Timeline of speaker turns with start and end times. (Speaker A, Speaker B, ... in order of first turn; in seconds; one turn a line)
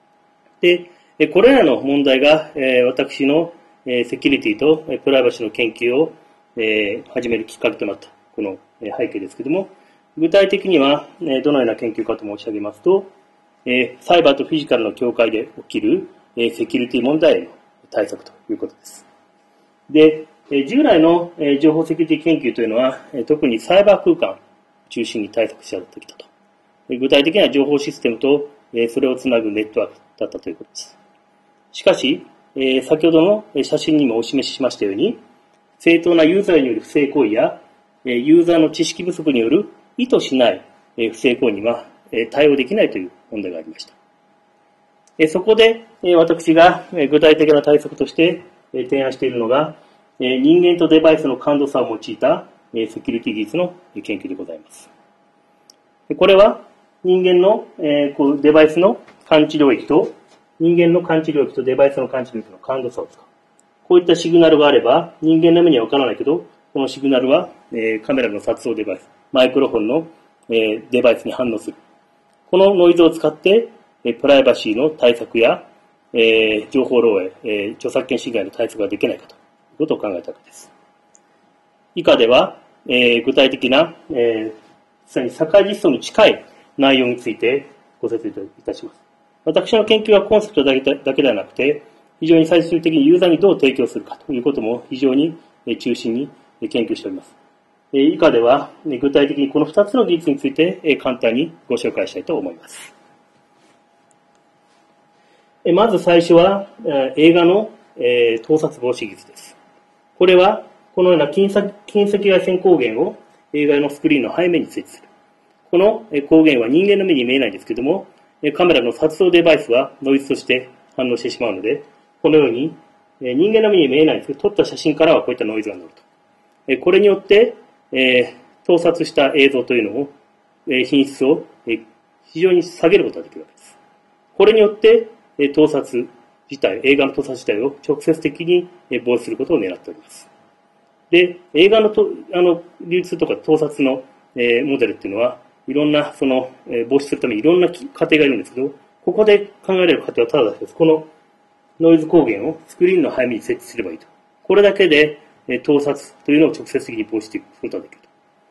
Speaker A: 0.6-13.1
Speaker A: 13.7-19.1
Speaker A: 19.9-26.3
Speaker A: 26.9-31.0
Speaker A: 31.7-35.2
Speaker A: 35.8-44.0
Speaker A: 45.2-54.9
Speaker A: 56.1-63.3
Speaker A: 63.9-71.8
Speaker A: 72.5-80.7
Speaker A: 82.0-97.3
Speaker A: 97.9-102.9
Speaker A: 105.7-109.6
Speaker A: 110.2-115.1
Speaker A: 115.7-126.0
Speaker A: 126.7-130.1
Speaker A: 130.7-133.8
Speaker A: 134.3-140.3
Speaker A: 141.1-151.1
Speaker A: 151.8-158.1